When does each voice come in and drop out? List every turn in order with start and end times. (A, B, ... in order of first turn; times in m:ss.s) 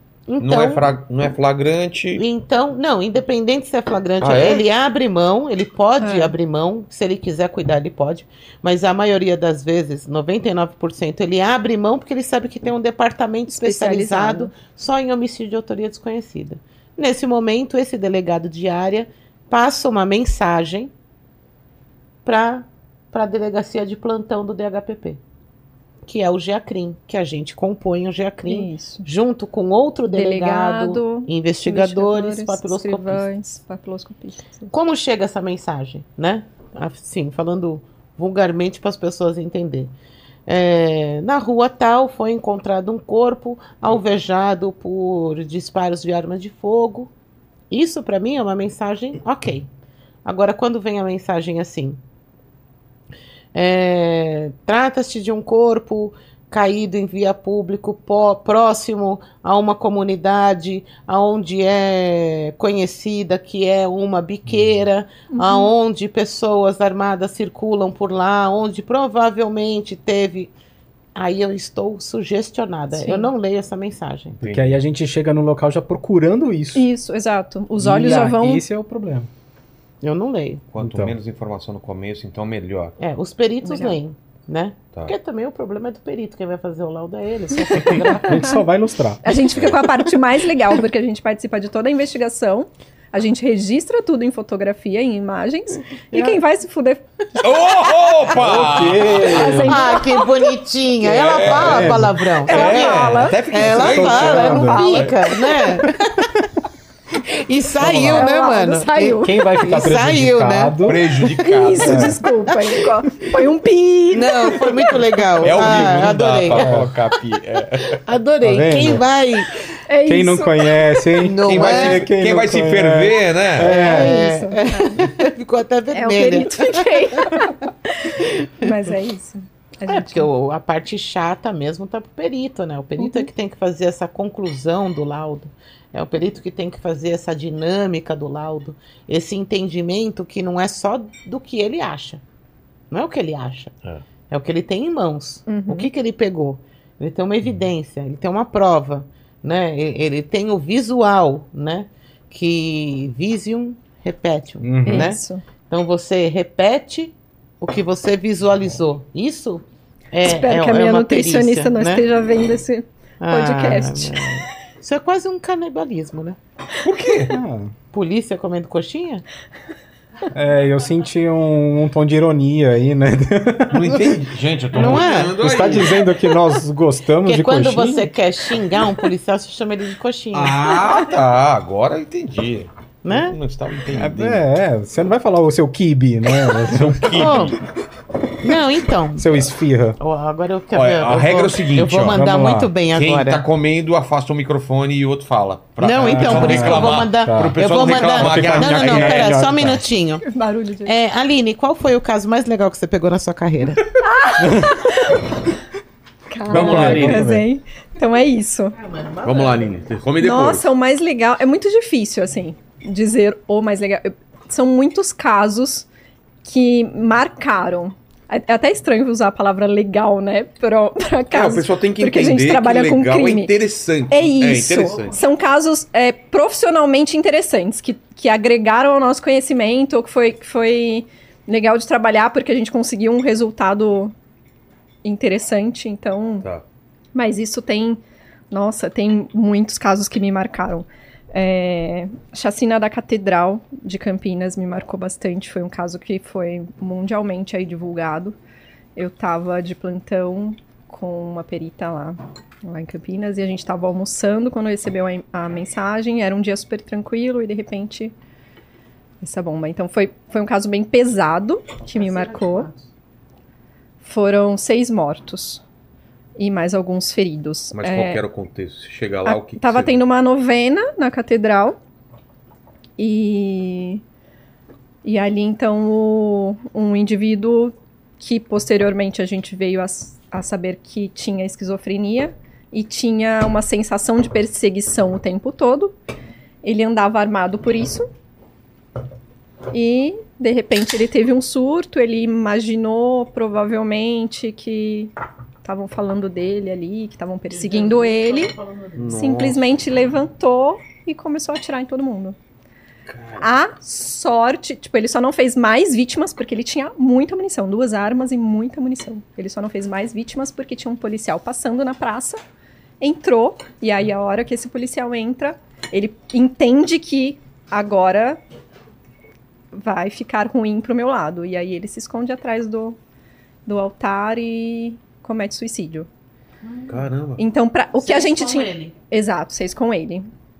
0:00.3-0:00.9 A
0:00.4-0:02.2 B
0:02.1-0:20.9 A
0:04.2-0:04.6 B
0:06.0-0:06.3 C
0:13.5-0:14.5 C
0:22.2-0:25.2 A
0:26.1-0:33.3 A
0:28.5-0:29.0 C
0:30.1-0:34.7 C
0:34.7-0:39.9 A
0:40.5-0:47.1 A
0:47.7-0:49.7 A
0:50.2-0:52.0 A
0:53.5-1:10.5 A
1:05.3-1:05.7 C
1:11.1-1:14.4 A
1:12.9-1:13.3 C
1:14.4-1:14.8 B
1:14.4-1:16.9 D
1:16.7-1:18.6 C
1:17.8-1:19.3 D
1:20.0-1:20.6 A
1:20.7-1:23.0 B
1:20.8-1:21.1 D
1:23.0-1:28.6 A
1:23.6-1:24.0 C
1:27.8-1:28.4 C
1:27.8-1:29.3 D
1:29.2-1:37.0 C
1:29.5-1:29.8 B
1:36.1-1:36.4 A
1:37.4-1:39.7 B
1:38.3-1:39.8 D
1:39.2-1:40.5 C
1:39.4-1:46.3 A
1:41.0-1:45.1 B
1:41.5-1:42.2 D
1:42.4-1:43.4 C
1:43.6-1:45.1 D
1:44.6-1:45.6 C
1:47.2-1:50.9 A
1:47.8-1:48.3 D
1:48.2-1:49.6 C
1:49.2-1:51.1 D
1:50.8-1:52.2 B
1:51.4-1:55.0 C
1:51.8-1:52.2 D
1:52.5-1:52.8 A
1:54.1-1:56.9 A
1:55.4-1:58.0 B
1:56.5-1:56.9 D
1:58.0-1:59.6 A
1:58.4-1:59.0 D
1:59.9-2:01.0 C
2:00.0-2:04.3 D
2:01.2-2:02.1 A
2:01.4-2:03.7 B
2:03.6-2:07.5 A
2:03.8-2:05.1 C
2:05.9-2:10.3 C
2:08.2-2:08.7 A
2:09.9-2:22.2 A
2:13.0-2:13.3 C
2:22.9-2:23.7 A
2:24.3-2:42.0 A
2:25.5-2:25.9 C
2:34.6-2:35.1 D
2:34.8-2:35.4 C
2:40.2-2:44.4 C
2:43.2-2:46.4 A
2:46.8-2:47.4 B
2:47.3-2:47.7 D
2:47.9-2:49.2 A
2:50.3-2:54.2 D
2:53.7-2:56.1 B
2:54.7-2:58.1 D
2:54.7-2:55.4 A
2:57.2-3:00.6 A
3:00.3-3:04.4 B
3:03.0-3:03.4 A
3:03.9-3:07.5 D
3:06.5-3:07.6 B
3:07.1-3:07.5 A
3:08.4-3:09.4 A
3:09.1-3:10.0 D
3:10.0-3:13.4 A
3:10.7-3:12.3 B
3:12.0-3:12.7 D
3:12.8-3:19.5 B
3:15.8-3:20.2 A
3:16.0-3:19.8 D
3:20.2-3:20.9 C
3:20.8-3:23.9 A
3:24.0-3:25.2 C
3:24.4-3:24.8 D
3:26.3-3:28.8 C
3:26.5-3:27.4 D
3:26.5-3:27.2 B
3:28.8-3:29.7 A
3:29.2-3:30.7 B
3:30.2-3:35.9 C
3:36.4-3:43.5 C
3:41.3-3:45.2 B
3:44.1-3:54.1 C
3:55.0-3:56.4 C
3:57.1-4:08.4 C
4:09.0-4:18.1 C
4:19.2-4:22.7 C
4:22.0-4:22.8 A
4:24.0-4:25.6 C
4:26.4-4:28.2 C
4:27.7-4:30.0 B
4:29.2-4:31.8 C
4:33.0-4:34.0 C
4:35.0-4:45.9 C
4:46.6-4:48.1 C
4:49.7-5:02.4 C
4:58.9-4:59.6 B
5:03.0-5:03.5 B
5:03.4-5:12.4 C
5:13.0-5:18.4 C
5:19.7-5:23.0 C
5:23.6-5:26.1 C
5:26.6-5:27.0 A
5:26.9-5:27.4 B
5:27.4-5:30.3 C
5:28.0-5:28.9 A